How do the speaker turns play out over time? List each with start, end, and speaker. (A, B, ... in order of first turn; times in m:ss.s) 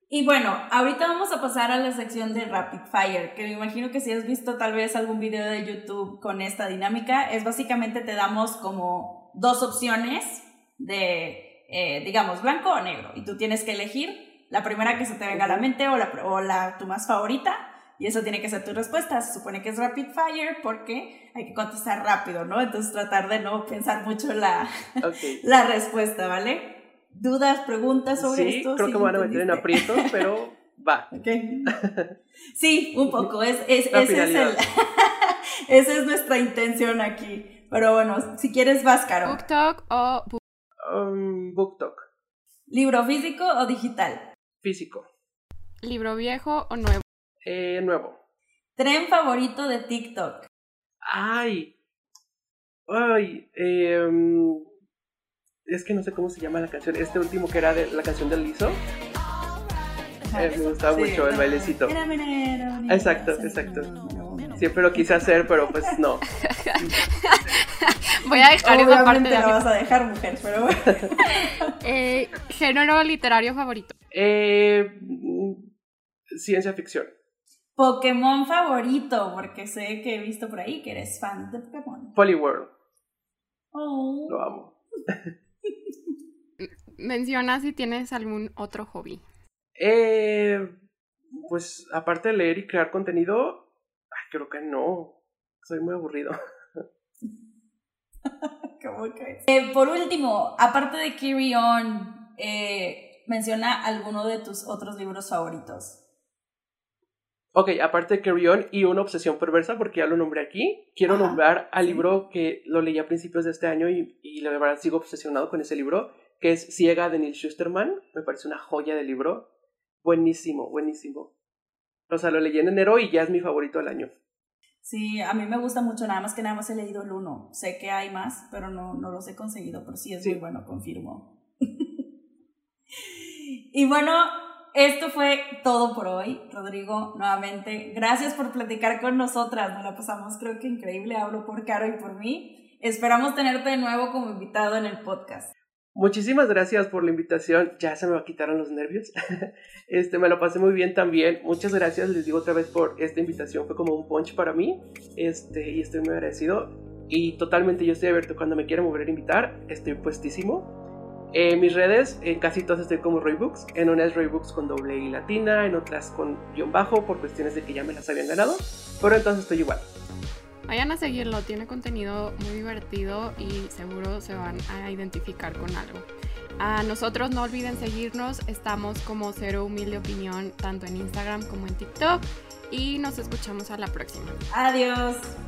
0:00.1-0:30.2 A
0:15.3-0:15.6 B
0:25.0-0:25.4 B
0:28.2-0:31.1 B
0:31.1-0:31.7 A
0:31.6-0:32.1 B
0:32.6-0:39.4 A
0:33.9-0:34.6 B
0:39.2-0:40.4 C
0:40.8-0:42.0 B
0:42.7-0:44.3 A
0:44.6-0:45.0 B
0:45.8-0:47.0 C
0:47.4-0:48.2 B
0:48.8-0:50.5 A
0:51.0-0:51.7 B
0:52.9-0:54.6 B
0:55.6-0:58.8 B
1:00.2-1:05.9 A
1:00.3-1:01.9 B
1:02.9-1:03.9 B
1:04.6-1:06.2 B
1:06.4-1:09.6 C
1:08.3-1:11.7 A
1:11.2-1:13.9 C
1:14.1-1:15.7 B
1:16.3-1:17.1 B
1:17.8-1:22.1 A
1:22.1-1:22.7 B
1:23.7-1:24.4 A
1:24.3-1:24.7 B
1:26.6-1:29.2 C
1:29.8-1:30.7 B
1:31.3-1:36.3 B
1:38.8-1:46.0 A
1:47.5-1:59.4 B
1:51.1-1:52.0 A
2:00.0-2:01.3 B
2:02.1-2:04.1 B
2:04.8-2:11.8 A
2:13.0-2:25.5 A
2:25.9-2:40.7 B
2:41.3-2:49.9 B
2:50.7-2:56.0 C
2:56.6-3:04.3 C
3:04.5-3:05.4 A